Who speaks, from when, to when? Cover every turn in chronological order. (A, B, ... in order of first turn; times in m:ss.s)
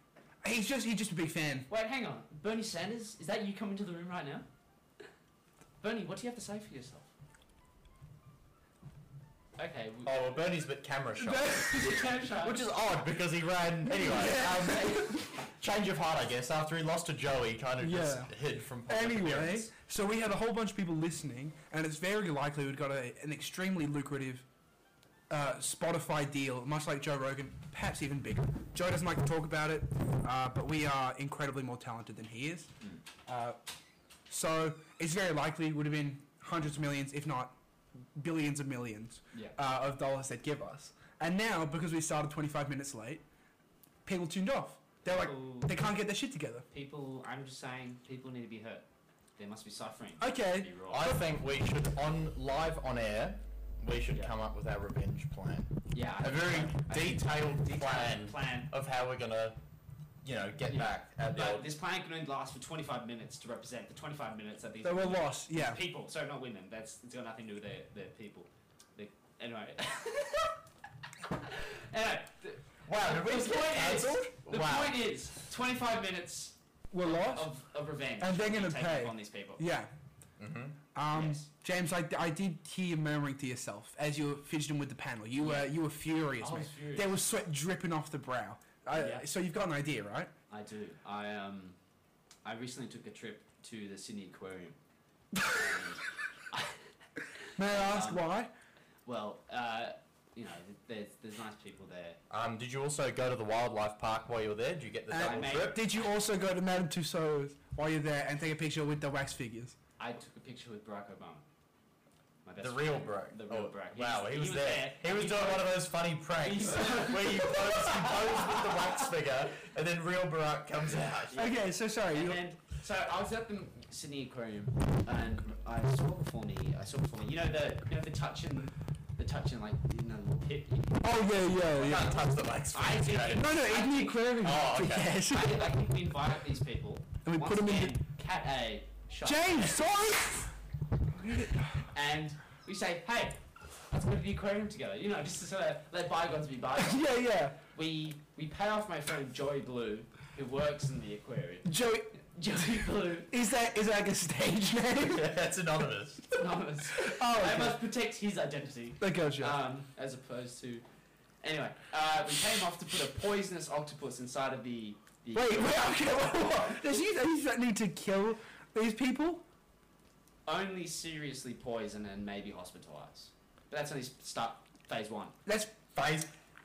0:00.4-0:01.7 A
0:01.7-0:04.5 B
0:05.8-0:07.1 B
0:09.6-0:10.3 B
0:10.0-0:11.7 C
0:11.2-0:12.1 A
0:11.8-0:12.6 B
0:12.4-0:19.7 C
0:13.9-0:15.2 A
0:17.8-0:18.3 A
0:18.9-0:24.4 A
0:25.3-0:32.7 A
0:33.3-0:33.6 A
0:34.3-0:37.5 A
0:38.2-0:43.2 A
0:44.1-0:46.6 A
0:45.0-0:45.7 B
0:46.7-0:48.8 B
0:49.4-0:51.2 B
0:50.2-0:51.2 A
0:50.9-0:55.7 C
0:55.9-0:58.7 B
0:56.2-0:59.6 C
1:00.2-1:01.7 C
1:00.7-1:10.5 B
1:04.8-1:05.8 A
1:11.5-1:19.6 B
1:12.9-1:14.9 C
1:16.9-1:17.5 A
1:18.2-1:19.9 A
1:20.4-1:20.8 C
1:21.0-1:30.3 A
1:21.1-1:21.5 B
1:25.4-1:25.7 B
1:26.4-1:27.1 B
1:28.9-1:29.2 B
1:30.5-1:31.8 B
1:32.4-1:34.8 B
1:35.5-1:36.8 B
1:37.6-1:38.5 A
1:37.7-1:38.2 B
1:39.1-1:42.2 B
1:42.3-1:45.8 C
1:45.1-1:49.8 A
1:45.2-1:45.8 B
1:50.0-1:51.4 B
1:52.4-1:55.8 B
1:52.6-2:01.5 C
1:56.4-1:58.8 B
2:00.9-2:01.6 B
2:01.4-2:02.4 A
2:02.1-2:11.1 B
2:11.0-2:12.2 A
2:11.7-2:13.5 C
2:12.7-2:14.2 B
2:13.4-2:15.6 A
2:14.4-2:15.2 C
2:15.3-2:19.8 B
2:17.2-2:18.0 A
2:19.2-2:20.5 A
2:21.2-2:21.7 A
2:21.9-2:23.4 B
2:23.9-2:27.1 B
2:26.8-2:27.6 A
2:27.7-2:31.7 B
2:31.6-2:32.1 A
2:32.2-2:33.3 B
2:33.3-2:35.3 A
2:35.0-2:36.2 C
2:36.3-2:40.8 B
2:37.0-2:37.8 A
2:39.0-2:39.6 A
2:41.4-2:47.0 B
2:45.4-2:49.4 A
2:50.5-2:55.3 B
2:55.5-2:55.8 A
2:56.0-2:56.3 C